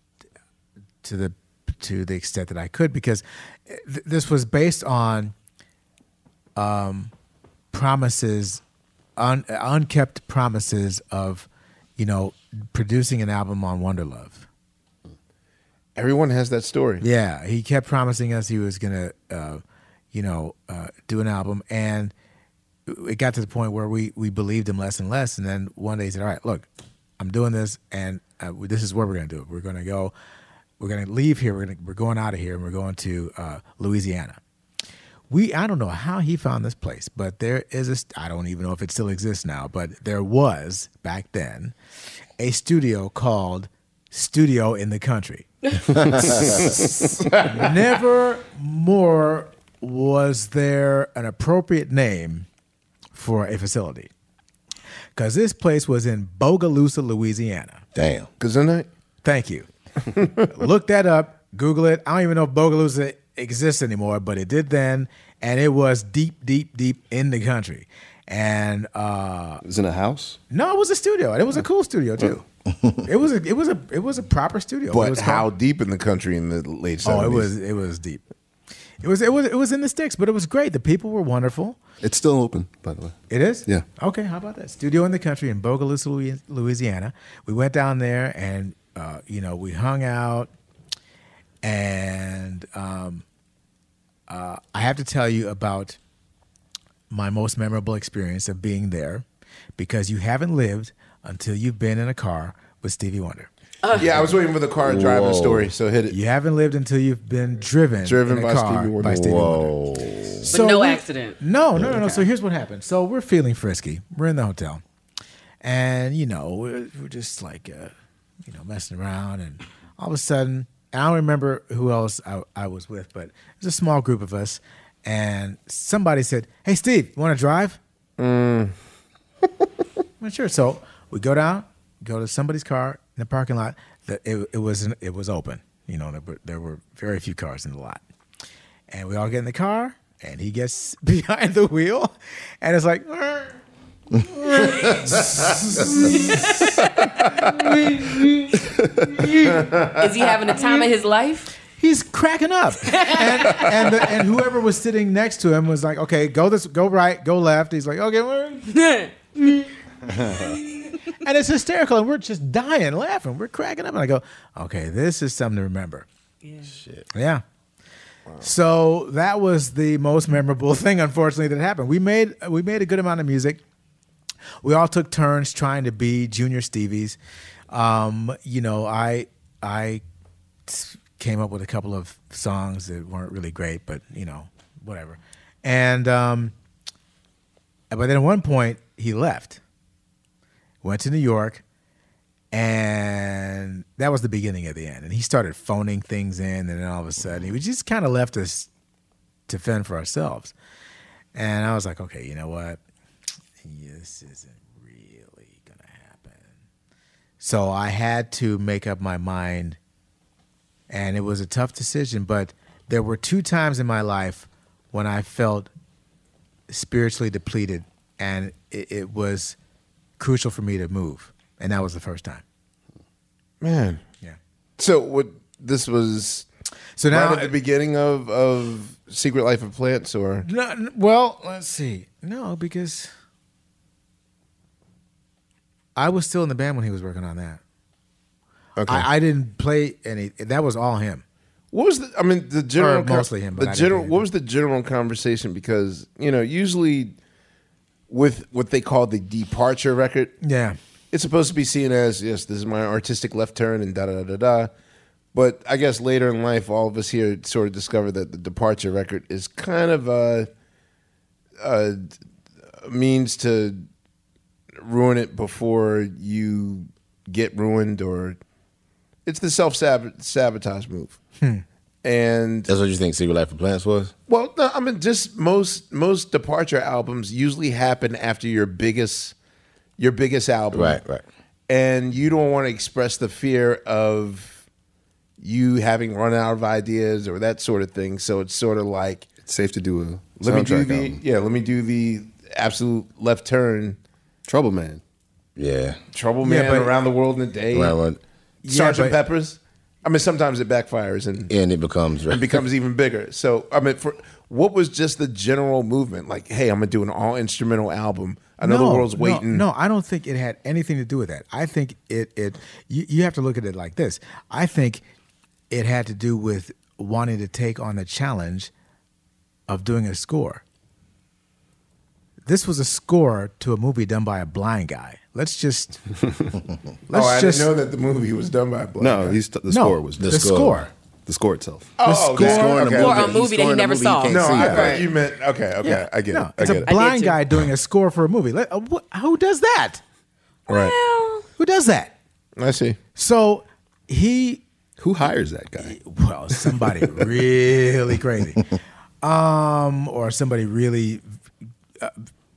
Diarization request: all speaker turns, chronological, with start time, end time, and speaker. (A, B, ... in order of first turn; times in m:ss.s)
0:01.0-0:05.3 A
0:06.6-0:07.1 A
0:07.7-0:08.6 A
0:09.2-0:14.5 A
0:16.0-0:17.0 B
0:17.0-0:19.6 A
0:20.1-0:22.1 A
0:22.9-0:26.6 A
0:27.2-0:30.1 A
0:30.8-0:34.4 A
0:35.3-0:41.7 A
0:42.4-0:45.5 A
0:46.2-0:47.7 B
0:47.4-0:52.5 A
0:53.1-0:54.1 A
0:55.1-0:57.8 A
0:57.9-0:58.3 C
0:58.4-0:58.9 B
0:59.2-0:59.7 A
1:00.5-1:09.6 A
1:09.6-1:10.4 D
1:10.5-1:12.4 A
1:13.0-1:15.5 A
1:14.9-1:17.5 B
1:17.0-1:18.2 A
1:19.0-1:21.8 A
1:22.0-1:23.8 D
1:23.3-1:30.5 A
1:31.6-1:33.2 A
1:34.3-1:36.0 A
1:37.1-1:39.2 A
1:39.8-1:43.5 A
1:43.8-1:44.1 E
1:43.9-1:46.1 B
1:44.8-1:45.7 C
1:46.1-1:49.7 A
1:48.0-1:49.4 B
1:49.0-1:50.5 C
1:50.4-1:51.4 E
1:50.4-1:54.8 A
1:51.8-1:52.1 C
1:52.0-1:52.2 E
1:55.6-1:57.9 A
1:58.4-2:07.8 A
2:08.2-2:08.7 B
2:10.2-2:18.0 A
2:18.9-2:23.6 A
2:24.3-2:26.4 A
2:26.1-2:28.4 E
2:29.1-2:31.5 E
2:29.5-2:30.0 B
2:31.8-2:38.7 A
2:32.8-2:34.0 E
2:38.7-2:39.6 E
2:41.2-2:46.1 A
2:46.4-2:46.7 E
2:46.7-2:47.0 C
2:47.1-2:47.4 A
2:48.4-2:53.6 A
2:54.6-2:57.2 A
2:57.7-3:00.0 A
3:00.7-3:06.5 A
3:07.9-3:09.6 A
3:10.8-3:11.6 A
3:12.5-3:18.7 A
3:19.5-3:20.5 A
3:21.3-3:22.8 A
3:23.6-3:26.6 A
3:27.4-3:29.8 A
3:30.9-3:35.7 A
3:36.7-3:39.6 A
3:40.2-3:42.4 A
3:43.6-3:44.0 B
3:44.8-3:46.5 B
3:47.0-3:47.5 A
3:47.1-3:50.5 B
3:50.4-3:53.1 A
3:56.0-3:57.6 A
3:58.8-3:59.0 B
3:58.9-4:01.2 A
4:01.7-4:07.1 B
4:02.8-4:04.2 A
4:08.1-4:10.4 B
4:10.4-4:10.8 A
4:11.1-4:14.7 B
4:15.3-4:20.5 B
4:21.6-4:22.2 B
4:22.8-4:23.9 B
4:24.8-4:28.4 B
4:29.2-4:31.2 B
4:32.0-4:32.7 B
4:32.7-4:34.1 C
4:34.3-4:39.3 B
4:40.0-4:41.0 B
4:40.7-4:41.2 C
4:41.7-4:44.6 B
4:45.4-4:49.2 B
4:49.4-4:51.2 D
4:50.4-4:54.0 B
4:54.4-4:55.0 D
4:55.6-4:56.0 C
4:56.1-4:58.0 B
4:56.4-4:56.9 A
4:57.7-4:58.2 C
4:58.6-4:59.2 A
4:58.7-5:01.5 B
5:01.5-5:02.6 C
5:02.3-5:09.6 B
5:08.6-5:15.0 A
5:15.7-5:18.7 A
5:19.7-5:20.6 A
5:22.4-5:26.0 A
5:27.1-5:27.7 A
5:27.1-5:29.4 B
5:29.0-5:30.7 D
5:29.7-5:30.9 A
5:30.2-5:30.8 C
5:31.2-5:32.0 D
5:32.0-5:33.4 B
5:32.0-5:33.1 A
5:32.3-5:35.0 C
5:32.9-5:34.6 E
5:34.3-5:36.9 B
5:34.6-5:35.0 A
5:35.8-5:40.0 A
5:36.8-5:37.4 E
5:40.7-5:40.9 B
5:40.7-5:41.4 E
5:41.6-5:42.1 A
5:42.6-5:43.0 B
5:43.2-5:44.6 A
5:45.0-5:46.0 D
5:45.8-5:48.6 A
5:49.2-5:51.2 A
5:52.0-5:52.3 A